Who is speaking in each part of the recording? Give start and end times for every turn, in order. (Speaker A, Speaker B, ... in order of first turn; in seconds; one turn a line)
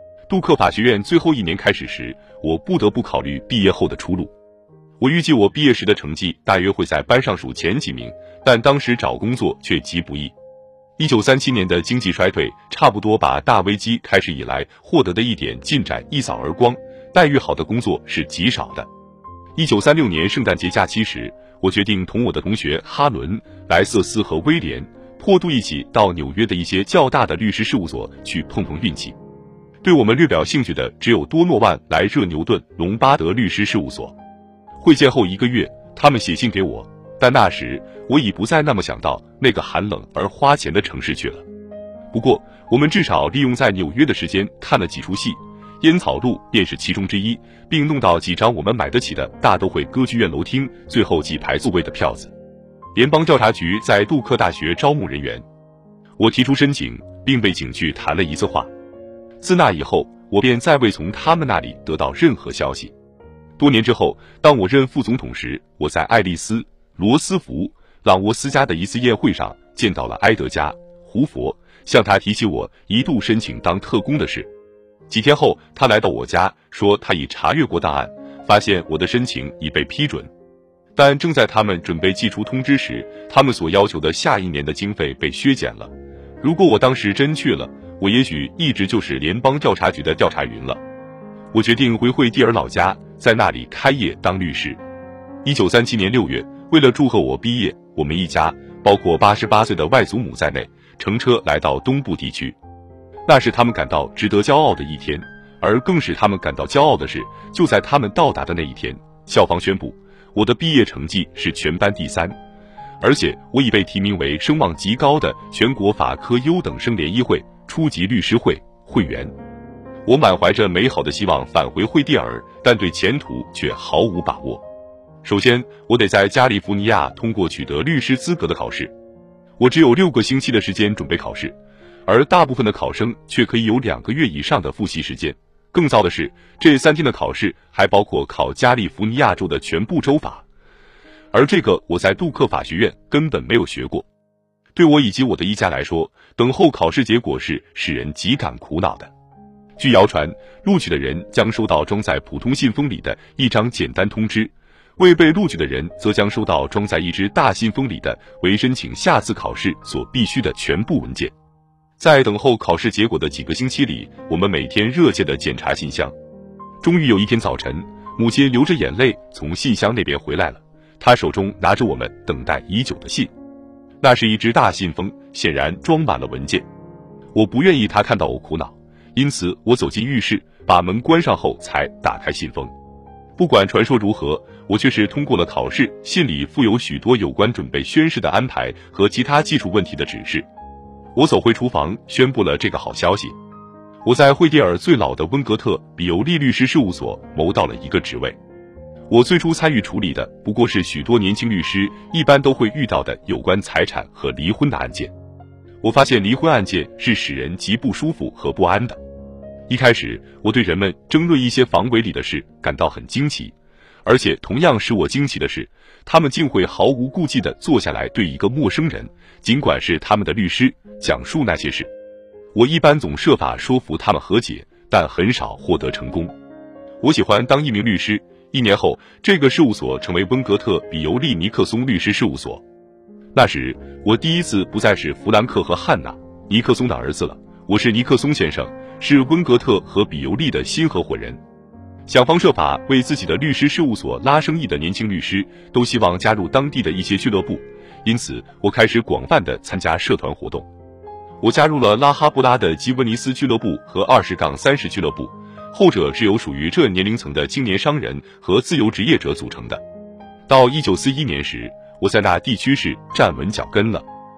Speaker A: 0.3-4.3
Speaker A: 5.0-10.3
Speaker A: 11.0-18.9
Speaker A: 19.6-29.2
Speaker A: 29.8-34.1
Speaker A: 34.8-41.4
Speaker A: 42.1-52.3
Speaker A: 52.9-55.4
Speaker A: 56.2-58.7
Speaker A: 59.4-62.9
Speaker A: 63.6-74.5
Speaker A: 75.1-80.3
Speaker A: 81.0-90.8
Speaker A: 91.5-94.8
Speaker A: 95.4-102.6
Speaker A: 103.3-112.4
Speaker A: 113.0-119.3
Speaker A: 120.1-124.6
Speaker A: 125.2-128.9
Speaker A: 129.6-140.4
Speaker A: 141.3-144.1
Speaker A: 144.7-149.1
Speaker A: 149.8-161.3
Speaker A: 162.0-166.1
Speaker A: 166.8-173.3
Speaker A: 174.0-176.6
Speaker A: 177.3-182.7
Speaker A: 183.4-190.4
Speaker A: 191.1-193.3
Speaker A: 194.0-198.4
Speaker A: 199.1-205.1
Speaker A: 205.8-209.0
Speaker A: 209.7-213.5
Speaker A: 214.0-221.9
Speaker A: 222.5-226.3
Speaker A: 227.0-232.6
Speaker A: 233.3-241.4
Speaker A: 242.1-250.7
Speaker A: 251.4-259.8
Speaker A: 260.5-264.1